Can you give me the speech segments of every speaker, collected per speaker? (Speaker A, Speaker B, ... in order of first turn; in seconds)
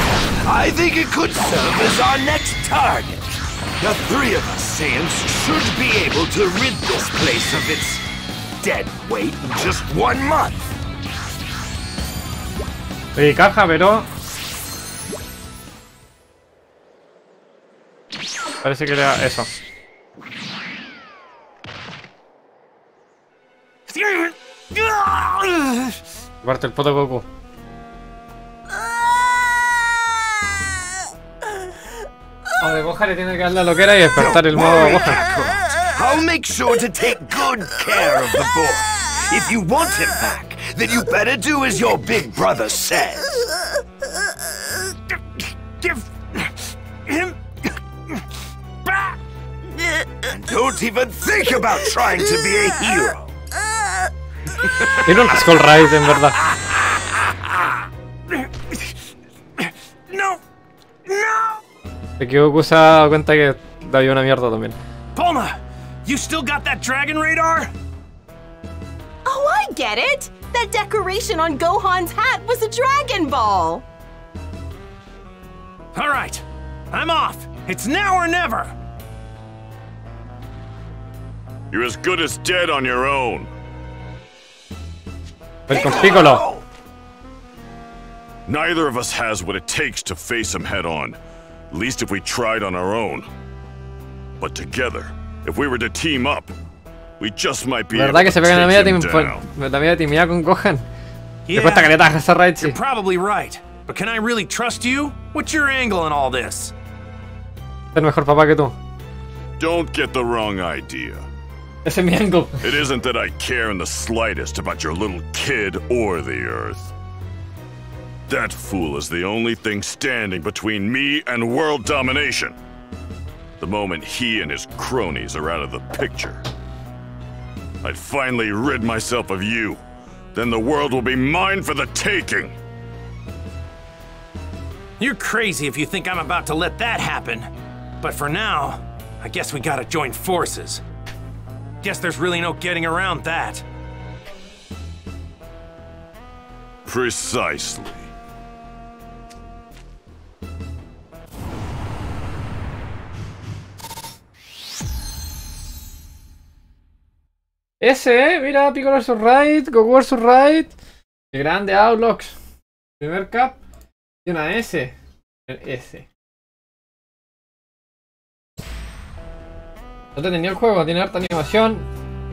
Speaker A: 0.4-8.0, 8.6-10.7, 34.1-43.5, 50.3-53.4, 85.7-86.6
Speaker B: 13.1-14.1, 18.6-19.5, 26.4-27.2, 32.6-35.2, 55.0-56.4, 62.2-64.8, 85.7-86.4, 97.9-100.8, 101.5-102.8, 107.9-108.8, 111.8-112.7, 157.8-160.8, 161.3-162.4, 163.0-163.6, 164.2-164.9, 165.5-166.1, 170.1-171.9
Speaker C: 23.9-26.0, 45.8-47.4, 48.9-49.1, 58.3-58.9, 59.6-60.4, 61.0-61.6, 65.1-67.7, 75.9-78.7, 101.5-102.0, 102.6-106.7, 135.0-137.5, 138.0-140.8, 141.8-143.6
Speaker D: 69.2-73.8
Speaker E: 81.7-83.5, 88.5-91.2, 91.7-93.3, 94.4-96.5, 97.2-99.4, 109.6-111.3, 112.6-116.9, 118.3-122.5, 123.6-126.4, 127.8-129.8, 130.3-132.5, 146.8-148.1